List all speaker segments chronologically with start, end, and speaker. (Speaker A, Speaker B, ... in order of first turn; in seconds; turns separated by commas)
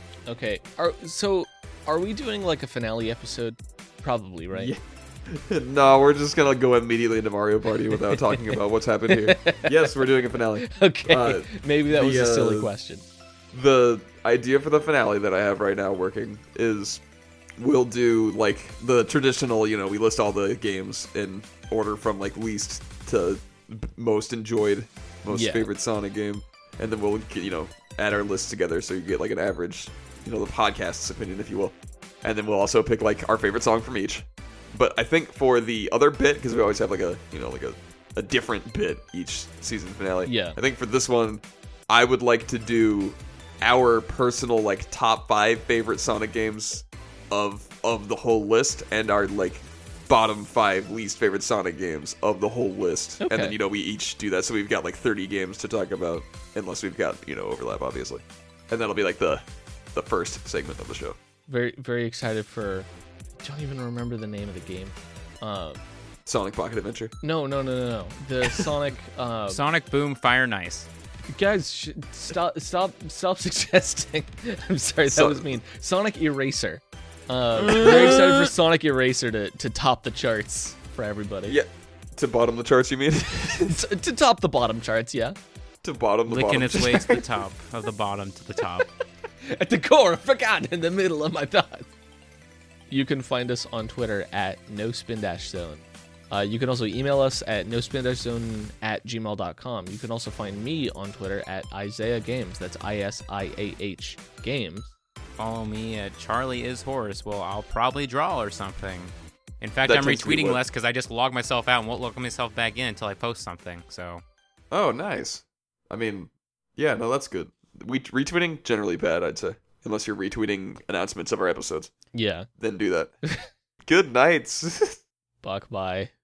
Speaker A: 0.3-4.7, Speaker B: 4.5-12.7, Speaker A: 8.1-8.5, Speaker A: 9.1-9.9, Speaker A: 10.6-13.0, Speaker B: 13.5-17.0, Speaker B: 17.6-59.4, Speaker A: 25.3-25.7, Speaker A: 40.2-40.6, Speaker A: 53.2-53.5, Speaker B: 59.9-61.2, Speaker A: 61.5-62.9, Speaker A: 63.4-65.8, Speaker B: 66.3-67.1, Speaker A: 67.2-69.6, Speaker C: 69.5-70.9, Speaker A: 71.3-81.6, Speaker B: 75.1-75.5, Speaker C: 77.7-78.3, Speaker B: 77.7-78.4, Speaker B: 81.5-83.8, Speaker A: 83.6-85.4, Speaker B: 85.8-87.3, Speaker C: 86.3-88.9, Speaker A: 89.5-91.9, Speaker A: 92.9-104.9, Speaker C: 105.4-114.2, Speaker B: 109.8-110.6, Speaker B: 114.7-121.9, Speaker A: 122.1-122.5, Speaker B: 122.6-123.1, Speaker B: 123.9-125.0, Speaker A: 125.4-126.1